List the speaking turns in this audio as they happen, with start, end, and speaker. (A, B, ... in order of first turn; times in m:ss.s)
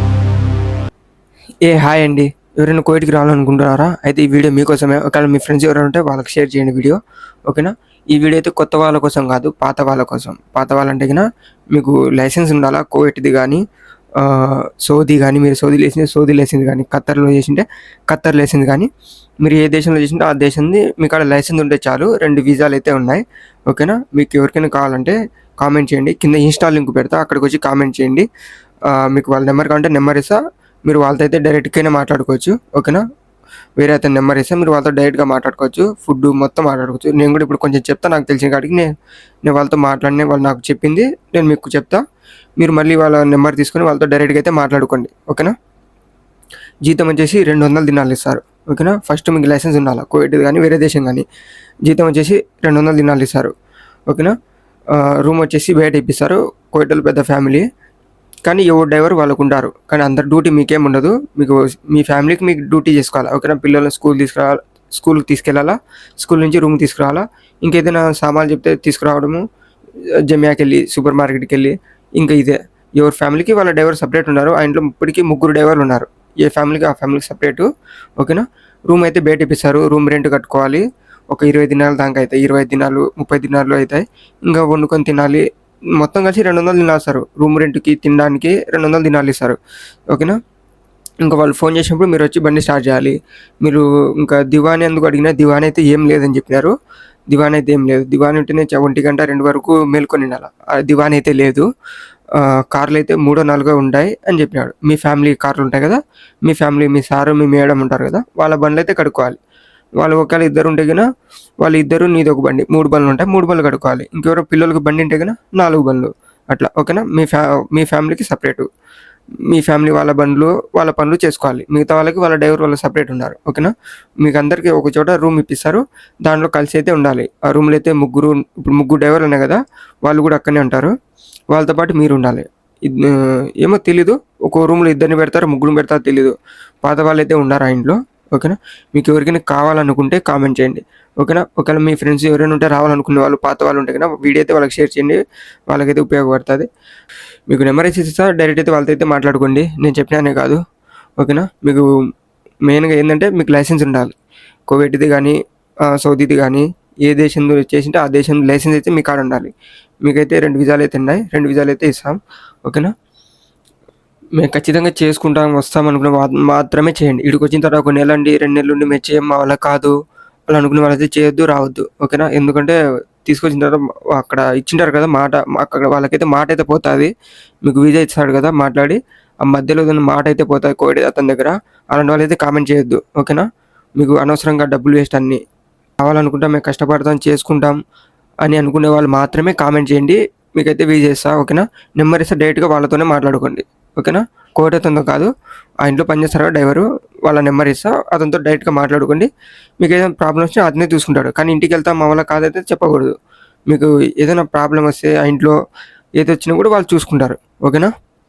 0:01.6-0:13.6 A
0:14.2-0:18.9 A
0:19.4-0:28.2 A
0:28.9-0:33.0 A
0:33.8-0:38.9 A
0:39.4-0:42.0 A
0:42.6-0:45.5 A
0:46.8-0:51.2 A
0:51.8-0:53.5 A
0:54.9-0:57.6 A
0:58.4-1:09.4 A
1:10.3-1:17.7 A
1:18.2-1:25.4 A
1:26.0-1:29.6 A
1:30.1-1:30.4 A
1:31.2-1:36.7 A
1:37.3-1:41.6 A
1:42.3-1:49.4 A
1:50.0-1:51.0 A
1:51.6-1:58.7 A
1:59.5-2:10.9 A
2:11.5-2:25.2 A
2:25.7-2:26.7 A
2:27.5-2:30.6 A
2:31.2-2:31.8 A
2:32.7-2:34.1 A
2:34.7-2:39.5 A
2:40.0-2:42.9 A
2:44.4-2:49.9 A
2:50.5-2:57.1 A
2:57.6-3:03.4 A
3:04.0-3:05.4 A
3:06.0-3:07.8 A
3:08.4-3:15.3 A
3:15.8-3:19.3 A
3:19.8-3:23.1 A
3:23.7-3:25.5 A
3:26.2-3:27.9 A